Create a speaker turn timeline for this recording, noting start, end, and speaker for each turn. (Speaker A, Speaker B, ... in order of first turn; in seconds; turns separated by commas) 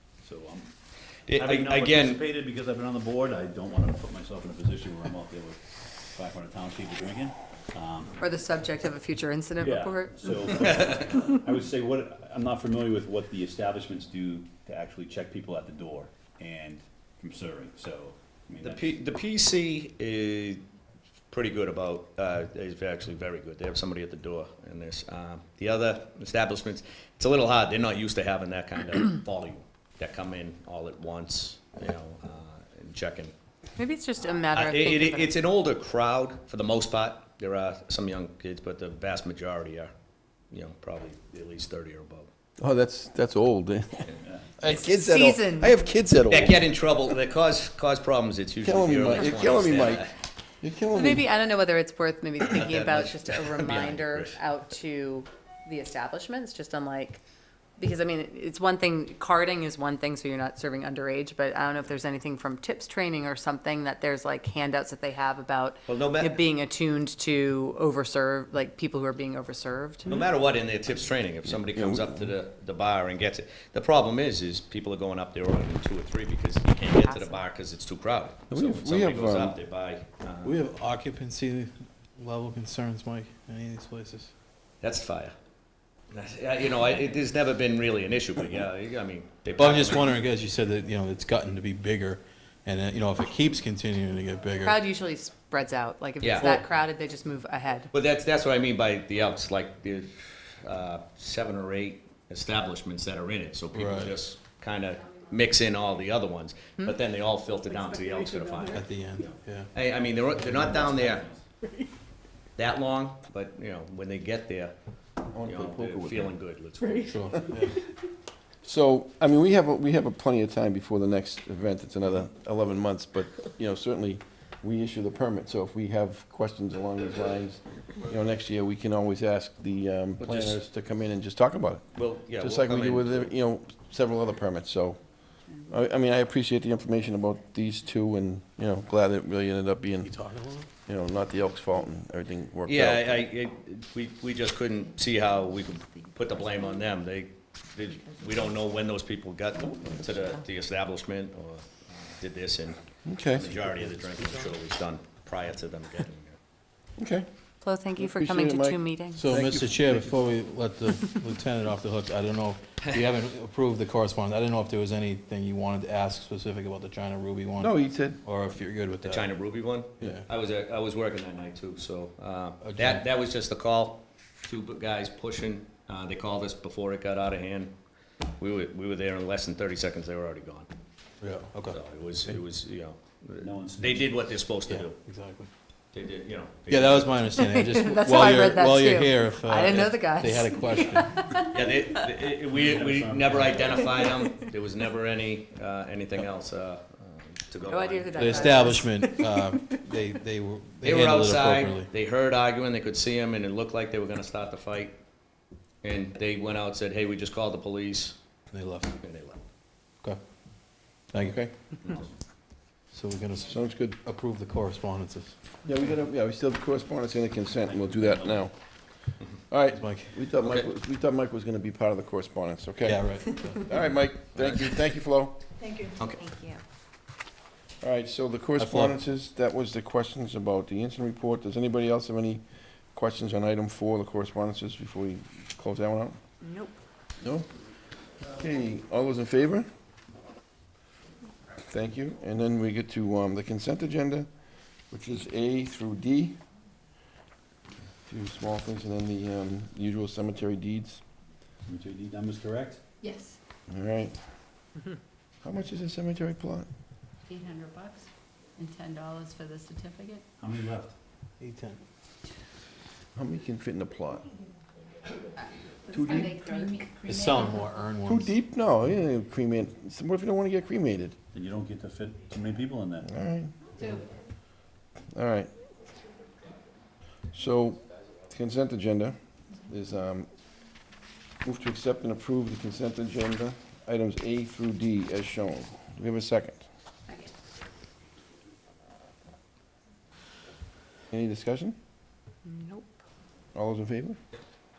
Speaker A: 0.2-0.7, Speaker B: 1.3-2.2, Speaker A: 1.4-8.2, Speaker C: 8.2-10.7, Speaker A: 9.6-18.9, Speaker B: 18.6-20.6, Speaker B: 21.3-33.3, Speaker C: 33.8-35.4, Speaker B: 34.5-39.9, Speaker B: 40.5-42.3, Speaker D: 42.6-46.7, Speaker A: 44.2-44.5, Speaker C: 44.6-45.8, Speaker B: 46.3-50.1, Speaker D: 48.6-50.1, Speaker D: 50.6-51.3, Speaker C: 50.9-57.2, Speaker B: 52.4-54.4, Speaker C: 57.8-70.2, Speaker B: 65.8-66.4, Speaker B: 70.0-80.6, Speaker D: 71.5-72.3, Speaker C: 77.0-77.4, Speaker D: 78.5-79.6, Speaker E: 80.4-84.3, Speaker B: 84.8-85.3, Speaker B: 86.1-90.1, Speaker E: 89.6-94.8, Speaker C: 94.6-97.9, Speaker B: 96.2-96.7, Speaker B: 97.9-111.3, Speaker E: 103.7-104.1, Speaker E: 108.7-109.7, Speaker A: 110.3-111.4, Speaker B: 112.6-114.7, Speaker D: 115.3-116.3, Speaker B: 115.4-117.4, Speaker E: 117.1-117.8, Speaker D: 118.6-140.2, Speaker B: 130.2-130.6, Speaker B: 131.9-133.3, Speaker E: 140.0-140.7, Speaker D: 140.8-143.3, Speaker B: 142.7-152.8, Speaker D: 149.6-150.2, Speaker D: 153.1-153.5, Speaker B: 153.3-156.4, Speaker D: 157.0-157.2, Speaker C: 157.6-159.2, Speaker D: 157.9-160.2, Speaker E: 159.1-169.3, Speaker D: 167.6-168.2, Speaker B: 169.0-177.8, Speaker E: 170.0-170.2, Speaker E: 172.6-173.0, Speaker B: 178.4-180.7, Speaker E: 181.2-181.8, Speaker B: 181.7-185.0, Speaker A: 183.4-184.3, Speaker E: 184.7-185.5, Speaker B: 185.9-187.2, Speaker E: 186.7-191.3, Speaker C: 187.3-191.9, Speaker B: 191.4-198.6, Speaker A: 192.4-194.1, Speaker C: 194.0-194.3, Speaker C: 197.6-199.8, Speaker E: 198.2-201.9, Speaker B: 200.8-205.0, Speaker B: 205.8-208.2, Speaker E: 208.5-208.9, Speaker B: 209.0-209.4, Speaker E: 211.1-211.4, Speaker D: 211.1-211.5, Speaker B: 211.8-212.1, Speaker E: 212.9-215.4, Speaker D: 213.4-214.0, Speaker D: 215.6-218.5, Speaker A: 217.7-218.4, Speaker D: 219.5-225.4, Speaker E: 219.7-220.2, Speaker B: 220.4-220.7, Speaker E: 222.8-223.8, Speaker B: 224.3-224.7, Speaker B: 226.0-226.2, Speaker C: 226.2-226.6, Speaker D: 227.8-236.2, Speaker E: 228.6-228.9, Speaker C: 236.4-236.8, Speaker D: 237.2-237.5, Speaker D: 238.2-239.7, Speaker D: 241.7-244.3, Speaker D: 244.9-246.4, Speaker D: 248.1-251.0, Speaker A: 251.7-252.8, Speaker F: 253.0-253.4, Speaker D: 253.7-254.2, Speaker D: 255.4-256.7, Speaker F: 257.3-260.2, Speaker A: 260.4-260.9, Speaker E: 261.4-261.8, Speaker D: 263.1-264.3, Speaker F: 265.9-267.8, Speaker D: 265.9-266.6, Speaker E: 267.0-268.3, Speaker D: 268.0-271.1, Speaker A: 271.3-273.1, Speaker D: 273.1-273.5, Speaker F: 273.8-274.0, Speaker D: 275.1-275.5, Speaker D: 277.3-280.3, Speaker D: 281.4-286.6, Speaker D: 291.1-291.8, Speaker C: 292.4-293.0, Speaker D: 293.5-294.2